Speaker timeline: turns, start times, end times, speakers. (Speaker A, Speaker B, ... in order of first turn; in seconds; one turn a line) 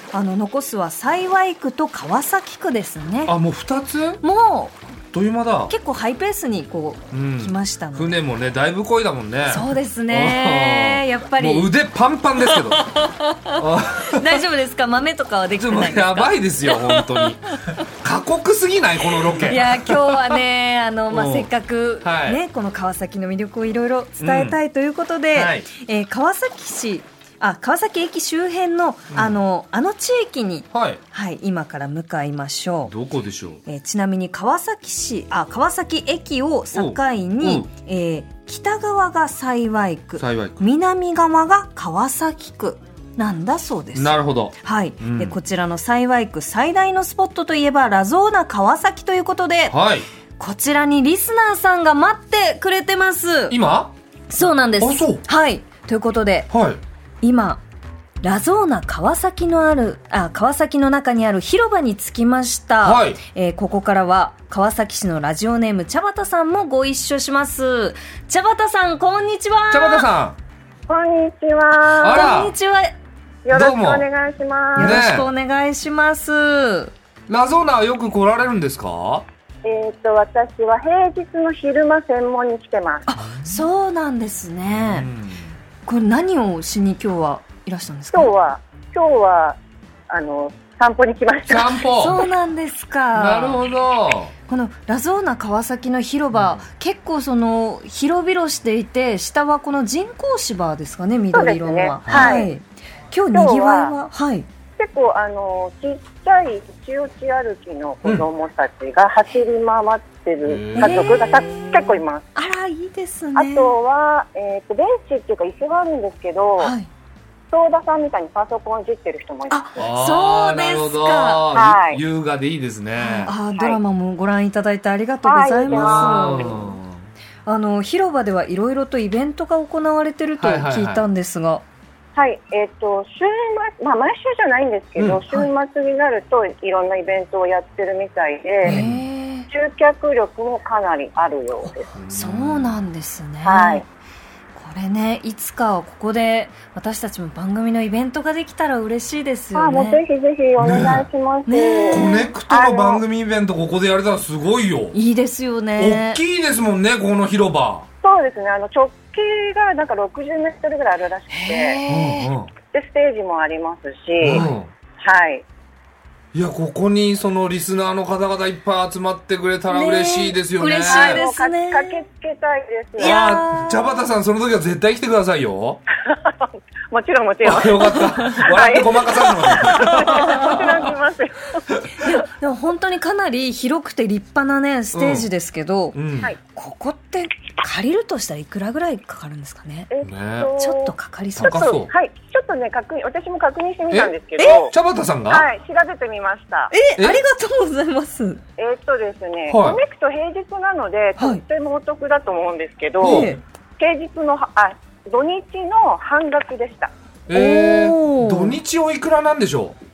Speaker A: 0.1-3.3
Speaker B: 3.2-4.2
Speaker A: 4.2-4.8
Speaker B: 5.1-5.7
Speaker A: 5.7-8.2
Speaker B: 7.1-14.4
Speaker A: 9.5-11.7
Speaker A: 12.4-17.8
Speaker B: 15.6-20.4
Speaker A: 19.3-32.9
Speaker B: 21.1-21.5
Speaker B: 22.0-22.4
Speaker B: 24.2-24.6
Speaker B: 25.3-25.7
Speaker B: 29.1-29.4
Speaker B: 30.7-31.0
Speaker B: 32.9-33.6
Speaker A: 33.6-49.8
Speaker B: 36.7-37.7
Speaker B: 40.2-40.6
Speaker B: 43.9-45.4
Speaker B: 49.7-50.0
Speaker A: 50.4-53.5
Speaker B: 53.5-53.9
Speaker A: 54.3-56.5
Speaker B: 54.8-55.2
Speaker B: 56.5-56.8
Speaker A: 57.2-57.6
Speaker A: 58.2-70.1
Speaker B: 62.8-63.2
Speaker B: 69.7-70.4
Speaker C: 70.9-72.3
Speaker B: 72.0-72.5
Speaker A: 72.0-73.0
Speaker C: 73.4-75.0
Speaker B: 73.5-74.0
Speaker A: 74.7-76.9
Speaker B: 74.8-75.3
Speaker B: 77.3-79.2
Speaker C: 79.6-83.1
Speaker A: 83.1-85.1
Speaker B: 83.2-83.6
Speaker B: 84.7-85.6
Speaker A: 85.8-88.3
Speaker C: 88.1-89.6
Speaker C: 90.1-91.8
Speaker B: 91.4-92.2
Speaker A: 91.9-93.6
Speaker B: 93.1-94.3
Speaker A: 94.5-104.5
Speaker B: 96.3-96.6
Speaker C: 101.3-102.5
Speaker B: 102.0-102.5
Speaker C: 103.3-103.9
Speaker C: 104.8-112.3
Speaker B: 110.4-111.1
Speaker A: 110.8-113.7
Speaker C: 113.3-116.7
Speaker A: 116.6-116.9
Speaker C: 117.5-119.6
Speaker A: 119.5-121.5
Speaker B: 119.8-123.3
Speaker C: 121.5-122.0
Speaker A: 123.0-126.8
Speaker C: 125.2-126.4
Speaker B: 125.7-127.0
Speaker A: 127.5-131.6
Speaker B: 130.4-131.0
Speaker C: 132.1-138.8
Speaker B: 135.0-135.2
Speaker A: 138.6-139.5
Speaker B: 138.7-139.0
Speaker C: 139.5-141.8
Speaker A: 141.6-143.8
Speaker B: 141.9-142.8
Speaker C: 143.4-143.8
Speaker A: 144.6-150.0
Speaker C: 149.5-153.0
Speaker B: 150.6-151.1
Speaker A: 151.5-152.3
Speaker B: 151.9-155.0
Speaker A: 154.9-156.2
Speaker B: 155.8-157.9
Speaker C: 158.0-161.8
Speaker A: 161.3-162.3
Speaker B: 161.9-162.5
Speaker C: 162.7-164.4
Speaker B: 164.2-164.7
Speaker C: 165.0-165.4
Speaker B: 166.3-171.2
Speaker A: 169.7-172.0
Speaker C: 170.6-173.3
Speaker A: 173.0-173.8
Speaker B: 173.0-175.8
Speaker C: 176.0-181.7
Speaker B: 177.4-180.8
Speaker A: 178.2-178.5
Speaker A: 179.6-180.5
Speaker A: 182.0-189.9
Speaker B: 184.9-185.3
Speaker B: 185.9-186.3
Speaker C: 189.9-194.7
Speaker B: 190.0-190.5
Speaker A: 190.6-191.7
Speaker B: 191.3-191.9
Speaker B: 193.9-195.5
Speaker C: 195.3-196.7
Speaker A: 196.7-198.4
Speaker B: 197.0-197.2
Speaker C: 198.6-203.3
Speaker B: 199.5-199.8
Speaker B: 203.0-203.4
Speaker A: 203.0-203.4
Speaker C: 203.8-206.9
Speaker B: 207.3-209.8
Speaker A: 207.3-208.6